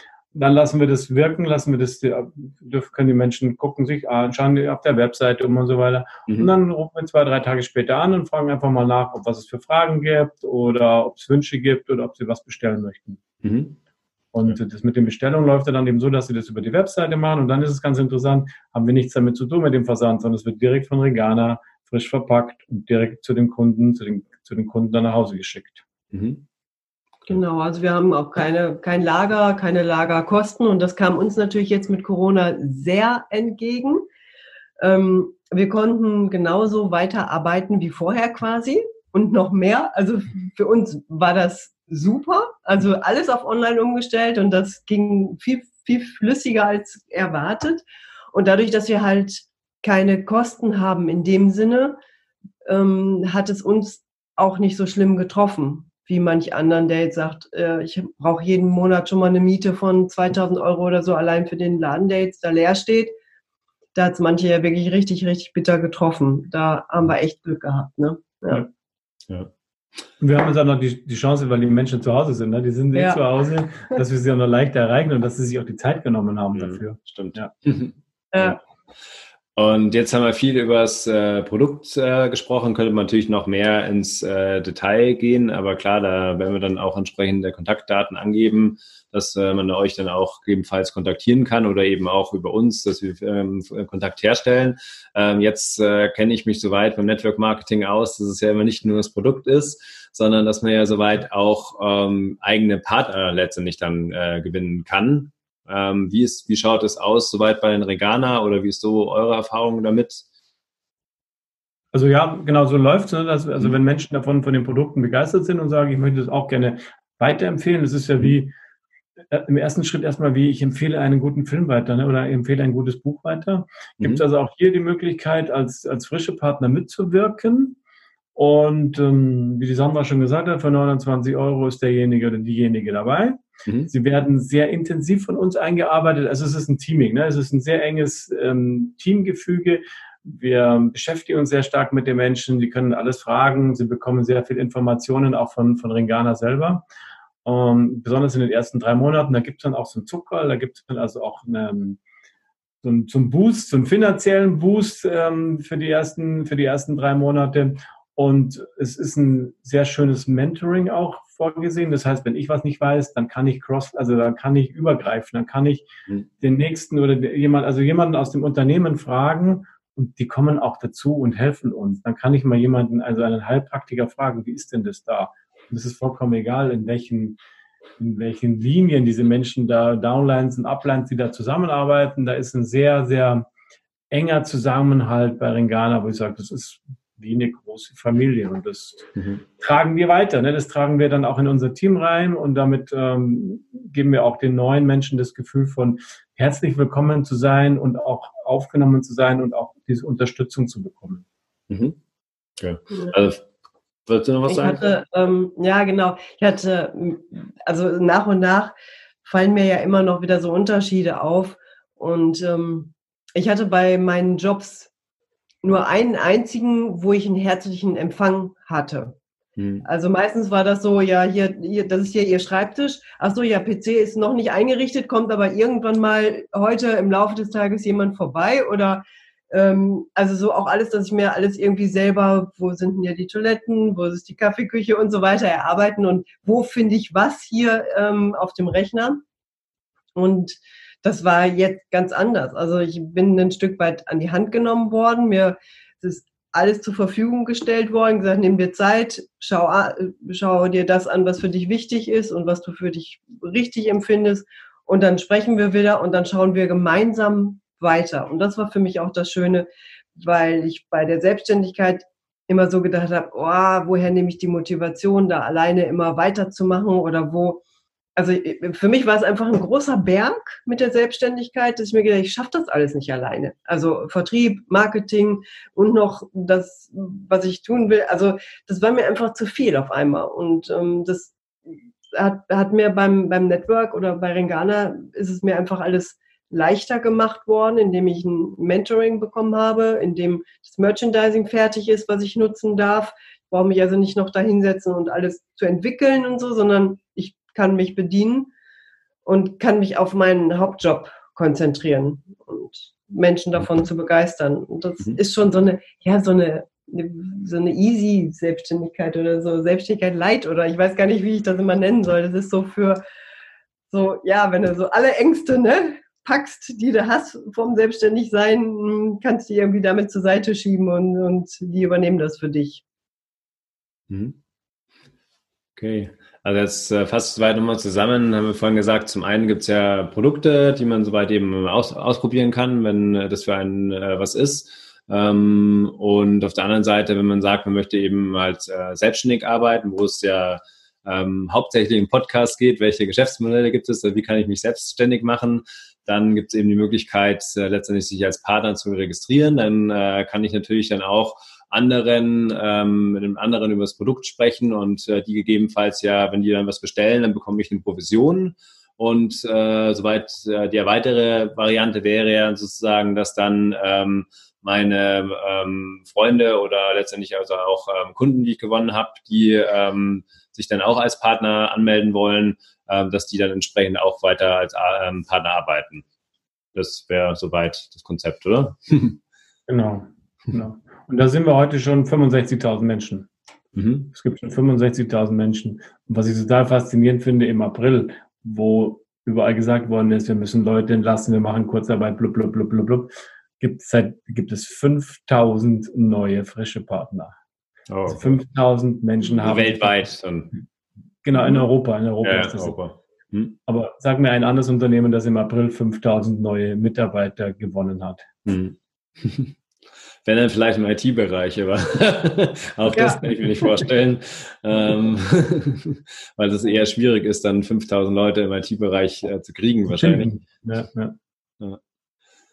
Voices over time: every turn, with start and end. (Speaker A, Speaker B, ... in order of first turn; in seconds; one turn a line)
Speaker A: 0.3-13.2
Speaker B: 13.4-13.8
Speaker A: 14.3-25.9
Speaker B: 26.1-26.4
Speaker C: 27.3-34.1
Speaker C: 34.8-52.0
Speaker C: 52.6-63.1
Speaker C: 64.0-68.6
Speaker A: 70.2-77.5
Speaker C: 73.0-73.2
Speaker B: 76.5-78.6
Speaker C: 78.3-78.6
Speaker B: 79.6-110.2
Speaker A: 111.9-118.5
Speaker A: 119.3-127.8
Speaker A: 128.3-146.8
Speaker B: 133.7-133.9
Speaker A: 147.4-152.0
Speaker A: 152.8-165.9
Speaker A: 166.4-177.4
Speaker A: 178.0-183.5
Speaker A: 184.1-201.2
Speaker B: 189.2-189.4
Speaker B: 201.7-202.0
Speaker B: 202.6-203.4
Speaker B: 204.1-204.8
Speaker C: 204.4-214.9
Speaker C: 215.6-219.2
Speaker B: 219.6-219.9
Speaker C: 219.8-239.2
Speaker C: 240.2-267.6
Speaker C: 268.2-281.4
Speaker C: 282.1-298.5
Speaker C: 299.3-313.0
Speaker C: 313.9-322.8
Speaker B: 324.1-324.4
Speaker B: 325.8-376.1
Speaker B: 376.8-379.2
Speaker A: 379.7-383.3
Speaker B: 383.7-384.1
Speaker A: 384.1-397.3
Speaker B: 397.9-398.3
Speaker A: 398.1-400.1
Speaker B: 399.4-400.6
Speaker A: 401.2-402.8
Speaker B: 402.2-403.6
Speaker A: 403.7-408.3
Speaker B: 408.4-409.5
Speaker B: 410.2-420.4
Speaker C: 412.9-413.7
Speaker A: 419.9-421.1